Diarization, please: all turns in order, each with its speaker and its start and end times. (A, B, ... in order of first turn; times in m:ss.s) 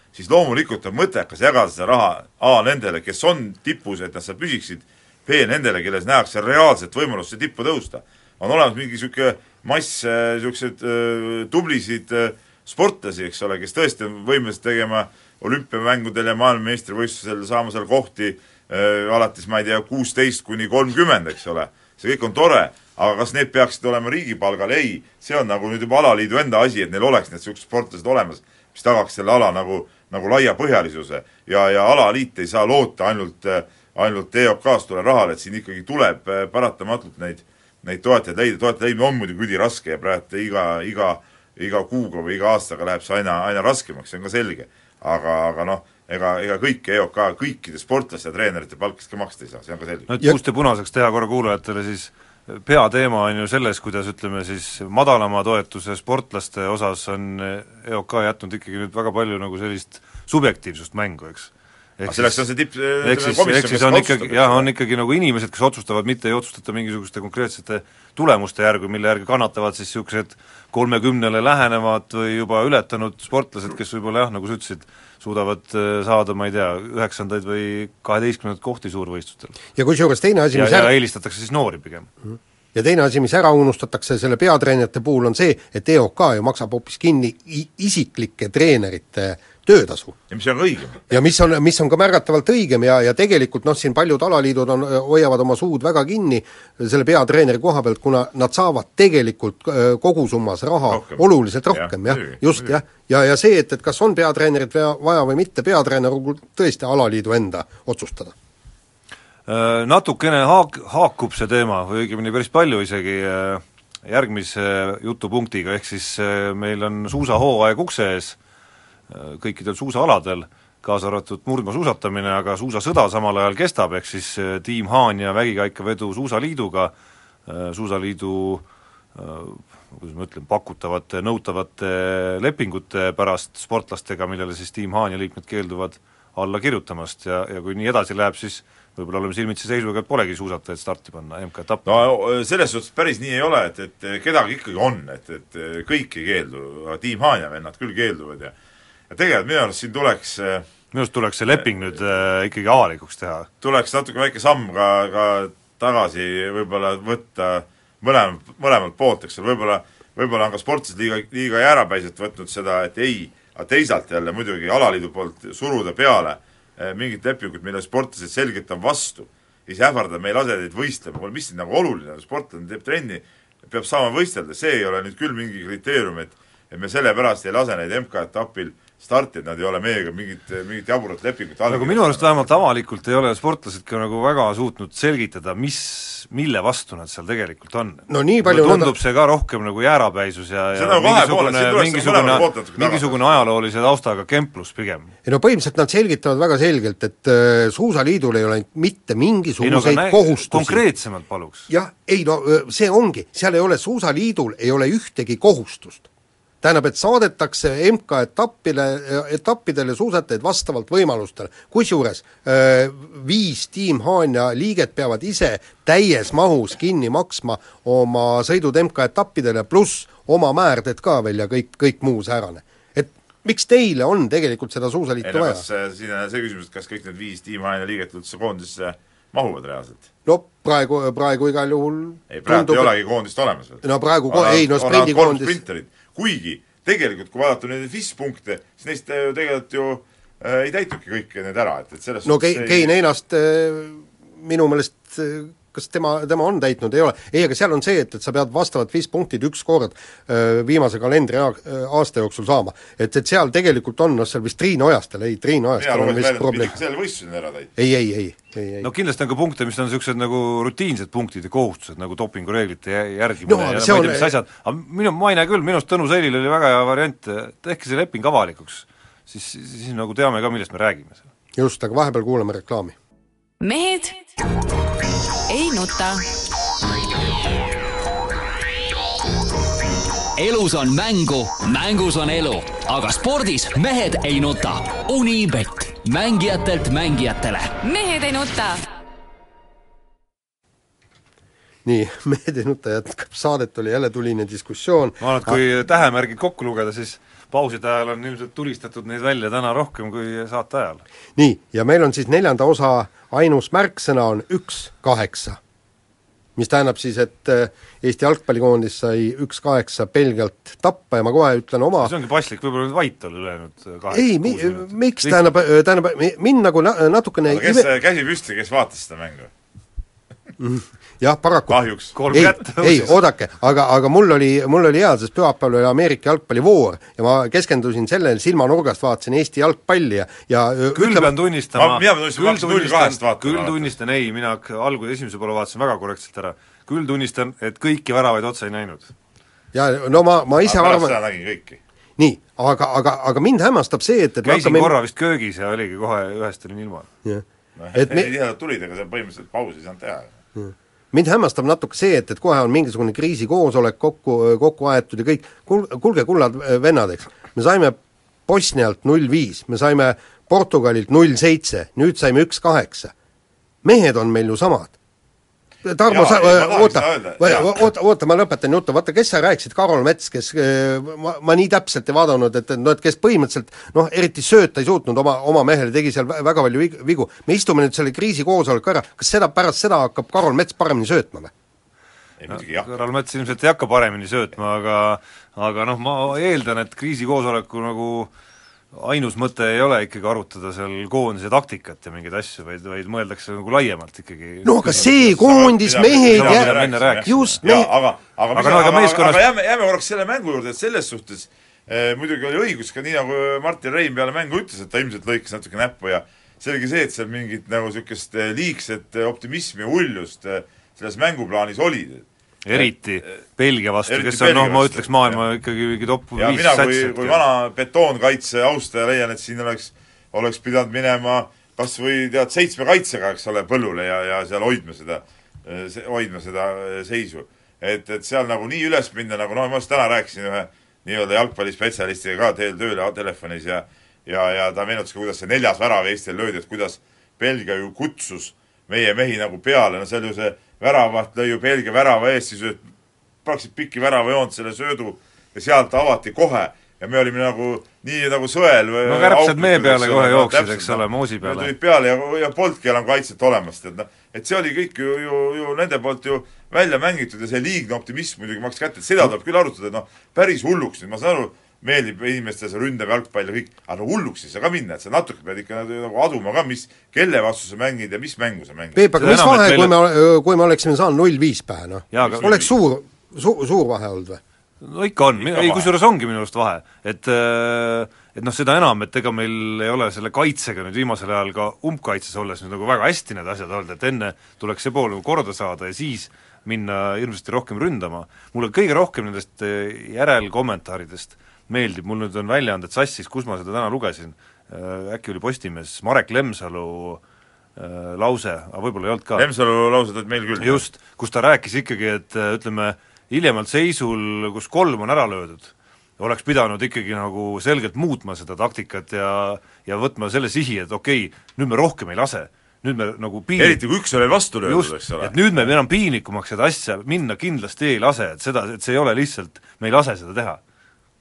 0:00.1-0:50.1 A
0:50.1-1:02.4 B
1:02.1-1:04.7 A
1:03.0-1:19.6 B
1:19.8-1:21.0 C
1:20.5-1:22.1 B
1:22.3-1:30.2 C
1:30.3-1:31.0 A
1:31.1-1:48.3 C
1:40.9-1:42.8 A
1:49.5-1:58.4 B
1:59.1-2:06.9 B
2:07.5-2:08.6 B
2:09.2-2:21.9 B
2:21.9-2:28.5 A
2:29.1-2:30.6 A
2:30.9-2:33.5 B
2:33.6-3:02.6 A
3:01.7-3:15.1 B
3:08.1-3:08.9 C
3:10.8-3:13.3 A
3:15.2-3:20.8 C
3:19.6-3:21.7 B
3:21.7-3:26.1 C
3:26.6-3:45.6 C
3:45.2-3:50.1 A
3:50.2-3:52.9 C
3:52.3-4:02.9 A
3:53.8-3:55.6 C
4:02.2-4:16.8 C
4:15.7-4:17.7 A
4:17.8-4:18.9 C
4:18.8-4:31.3 B
4:23.5-4:24.4 C
4:31.6-4:33.0 C
4:33.6-4:34.3 D
4:35.5-4:36.3 D
4:40.4-4:47.7 E
4:47.8-4:48.8 D
4:51.8-4:55.6 C
4:55.2-5:01.0 B
5:01.4-5:05.6 C
5:06.6-5:12.1 C
5:12.0-5:15.6 B
5:14.1-5:17.9 C
5:17.5-5:19.5 A
5:20.6-5:21.8 C
5:21.7-5:22.4 A
5:22.2-5:23.2 B
5:22.3-5:31.3 C
5:30.9-5:39.1 B
5:31.8-5:33.9 A
5:39.7-5:41.2 C
5:40.6-5:41.8 A
5:42.2-5:44.9 C
5:44.4-5:47.1 B
5:47.2-5:48.3 C
5:47.8-5:50.3 A
5:50.6-6:03.1 C
6:03.8-6:04.9 C
6:05.8-6:21.5 C
6:06.1-6:07.8 A
6:22.4-6:22.9 A
6:22.5-6:28.3 B
6:28.9-6:35.4 B
6:34.6-6:37.9 C
6:35.0-6:52.2 A
6:36.3-6:37.6 B
6:38.6-6:39.4 B
6:52.6-6:57.4 B
6:52.8-6:53.3 A
6:54.1-6:55.4 A
6:56.4-7:22.8 A
7:23.4-7:49.0 A
7:29.0-7:31.7 B
7:49.0-7:54.4 C
7:49.2-7:50.0 B
7:52.1-7:52.6 B
7:52.2-7:52.7 A
7:54.8-8:17.2 B
7:55.4-7:55.9 A
8:17.8-8:19.5 B
8:19.4-8:20.8 A
8:20.6-8:33.8 B
8:33.6-8:35.7 A
8:34.7-8:40.6 B